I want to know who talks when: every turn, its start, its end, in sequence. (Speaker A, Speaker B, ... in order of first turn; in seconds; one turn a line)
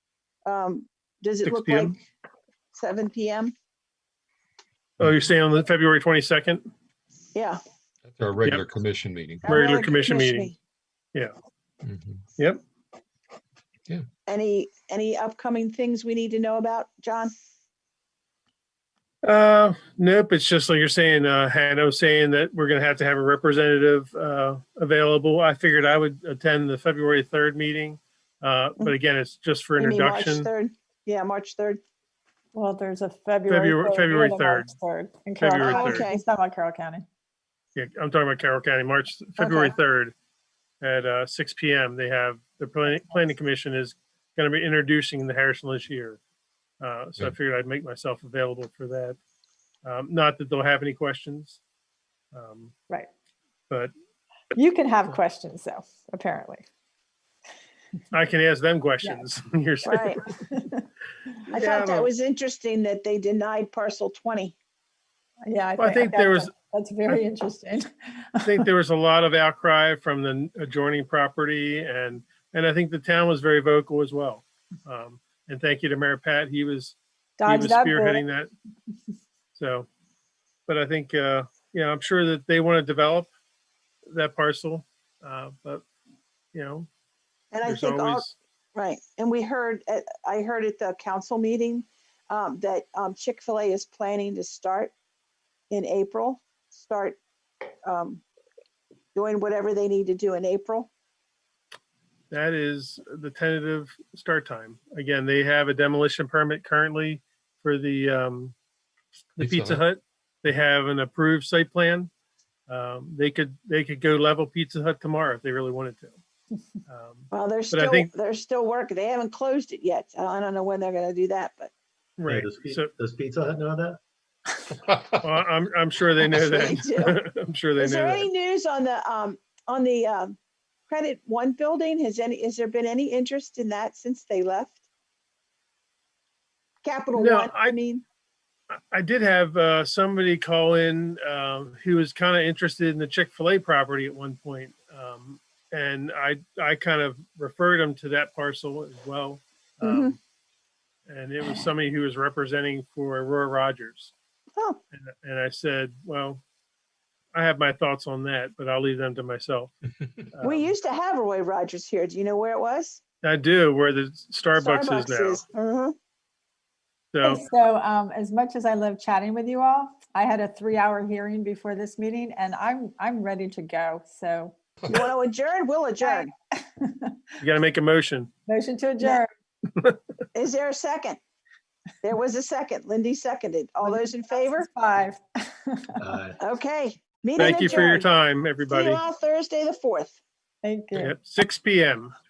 Speaker A: 0.5-2.0
Speaker B: 1.4-2.0
Speaker A: 2.7-3.5
Speaker B: 5.0-6.6
Speaker A: 7.3-7.6
Speaker C: 8.1-9.7
Speaker A: 9.4-10.6
Speaker B: 9.4-10.5
Speaker C: 11.8-12.2
Speaker A: 14.3-17.3
Speaker B: 19.2-30.5
Speaker A: 29.8-31.8
Speaker D: 32.5-37.0
Speaker B: 33.5-34.7
Speaker B: 35.4-36.1
Speaker A: 35.6-36.2
Speaker B: 37.8-40.1
Speaker A: 39.4-39.8
Speaker B: 40.8-46.2
Speaker B: 46.8-49.2
Speaker B: 49.8-51.6
Speaker B: 52.3-52.7
Speaker D: 54.5-56.7
Speaker B: 58.1-60.3
Speaker A: 59.9-60.2
Speaker D: 60.4-60.9
Speaker A: 61.5-64.6
Speaker B: 61.5-62.1
Speaker D: 65.5-68.7
Speaker B: 65.8-66.5
Speaker B: 68.4-78.5
Speaker D: 77.4-78.2
Speaker B: 79.5-79.9
Speaker B: 80.7-83.3
Speaker B: 84.1-85.8
Speaker B: 86.5-86.9
Speaker A: 87.5-94.9
Speaker B: 87.6-88.4
Speaker A: 95.7-97.2
Speaker A: 97.8-98.2
Speaker A: 99.1-100.9
Speaker B: 102.3-108.5
Speaker B: 109.3-112.1
Speaker C: 109.4-109.8
Speaker B: 112.7-116.2
Speaker B: 116.9-118.1
Speaker A: 117.3-121.7
Speaker B: 122.2-122.9
Speaker E: 122.3-124.0
Speaker C: 124.9-125.3
Speaker B: 125.2-128.3
Speaker A: 126.3-127.2
Speaker A: 127.8-130.4
Speaker A: 130.9-134.8
Speaker A: 136.8-138.0
Speaker B: 137.2-137.8
Speaker B: 138.9-150.2
Speaker A: 149.8-150.2
Speaker B: 151.1-154.1
Speaker B: 154.9-156.4
Speaker B: 157.3-159.7
Speaker B: 160.3-160.7
Speaker A: 160.4-163.0
Speaker B: 163.2-165.4
Speaker A: 164.6-165.9
Speaker B: 167.1-167.4
Speaker D: 167.2-174.6
Speaker A: 174.9-176.3
Speaker D: 176.0-177.2
Speaker B: 177.4-178.3
Speaker D: 178.5-179.3
Speaker A: 180.3-181.2
Speaker A: 182.0-184.7
Speaker D: 183.8-186.0
Speaker E: 186.0-186.4
Speaker A: 186.4-188.1
Speaker B: 187.4-189.0
Speaker D: 187.4-187.9
Speaker A: 188.7-190.2
Speaker D: 190.6-191.2
Speaker B: 191.0-192.1